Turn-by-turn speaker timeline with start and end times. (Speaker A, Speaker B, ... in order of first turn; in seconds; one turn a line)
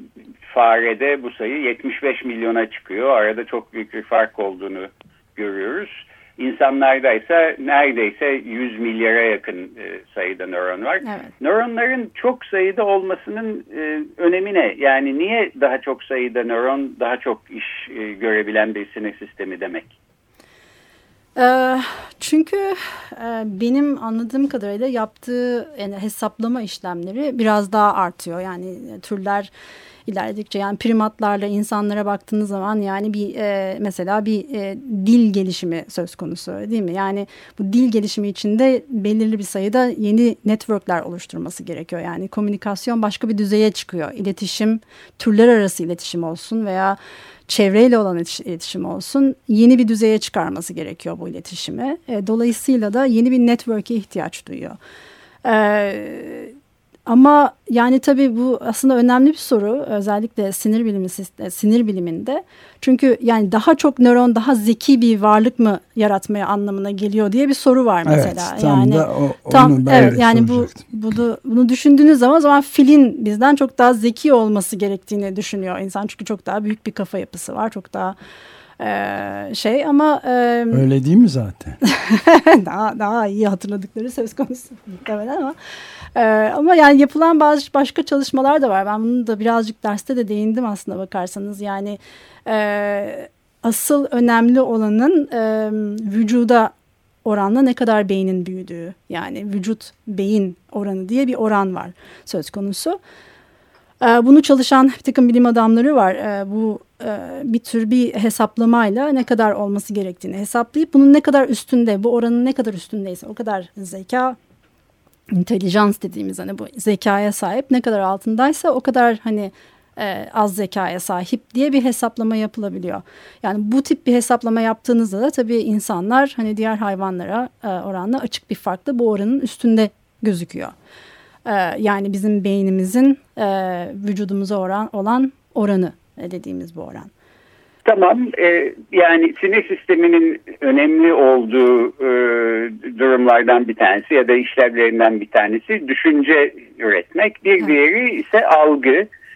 Speaker A: 0.5-19.9
Speaker B: 21.4-29.5
Speaker B: 30.1-47.0
Speaker B: 47.5-54.8
Speaker B: 55.4-56.5
Speaker B: 57.1-78.2
Speaker C: 68.0-70.8
Speaker B: 78.8-80.8
Speaker C: 80.7-81.8
Speaker B: 81.8-85.6
Speaker B: 86.1-96.7
Speaker B: 97.2-103.0
Speaker B: 104.0-114.4
Speaker B: 115.3-130.7
Speaker B: 131.4-137.1
Speaker A: 137.8-149.1